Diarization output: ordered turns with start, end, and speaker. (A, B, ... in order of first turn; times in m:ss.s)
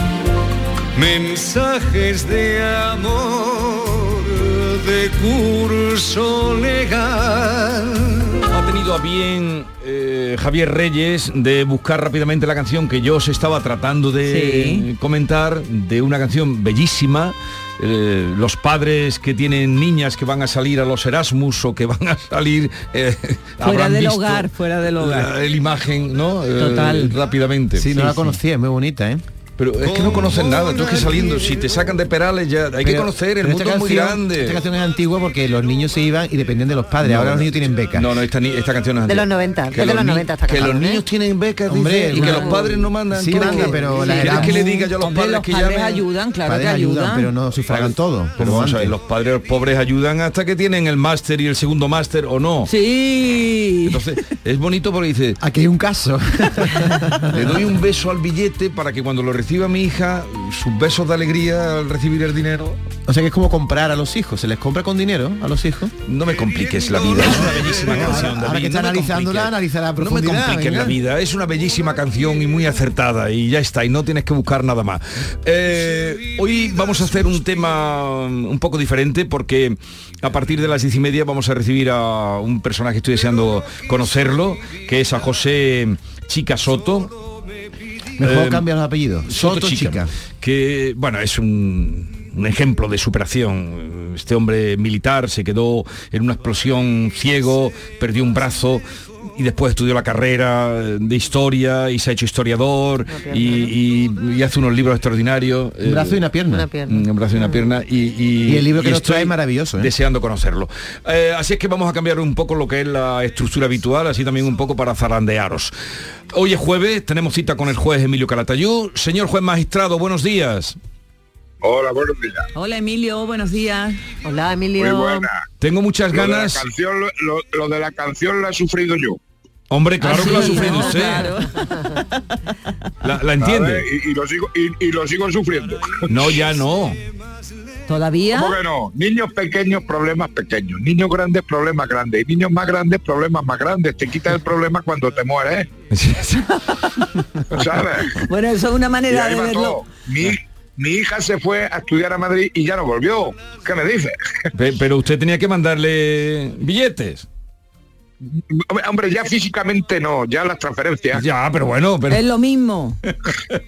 0:00.9-0:08.3 A
0:08.5-0:28.3 B
0:14.3-0:14.9 C
0:23.6-0:25.3 C
0:26.6-0:27.2 C
0:27.8-0:29.2 D
0:29.6-0:34.6 B
0:29.8-0:32.0 A
0:32.8-0:38.1 D
0:37.0-0:46.1 B
0:39.0-0:41.0 E
0:41.7-0:42.6 D
0:42.2-0:42.8 C
0:43.1-0:44.8 D
0:43.3-0:47.4 C
0:46.4-0:49.0 D
0:47.7-0:52.8 B
0:52.7-0:54.1 C
0:53.8-0:55.4 B
0:55.4-0:57.5 D
0:57.3-1:02.8 B
1:03.1-1:05.9 D
1:06.1-1:27.1 B
1:06.2-1:08.4 A
1:07.8-1:11.0 D
1:28.2-1:30.1 D
1:28.2-1:28.7 B
1:29.3-1:46.2 B
1:43.1-1:43.7 E
1:45.8-1:46.7 D
1:46.5-1:47.7 E
1:46.9-1:55.7 B
1:48.5-1:49.9 D
1:56.3-2:00.8 B
2:01.6-2:02.5 F
2:02.6-2:04.0 C
2:04.2-2:05.3 E
2:04.8-2:05.4 F
2:05.6-2:06.6 B
2:06.1-2:09.2 F
2:09.7-2:11.4 B
2:10.0-2:11.7 C
2:13.0-2:13.9 B
2:13.4-2:16.5 F
2:16.1-2:17.0 B
2:17.9-2:18.6 C
2:18.3-2:25.7 F
2:25.9-2:26.5 B
2:27.5-2:28.2 F
2:28.1-2:29.8 C
2:29.1-2:34.2 F
2:34.5-2:37.3 B
2:38.2-2:41.2 F
2:41.1-2:42.2 B
2:42.1-2:43.0 C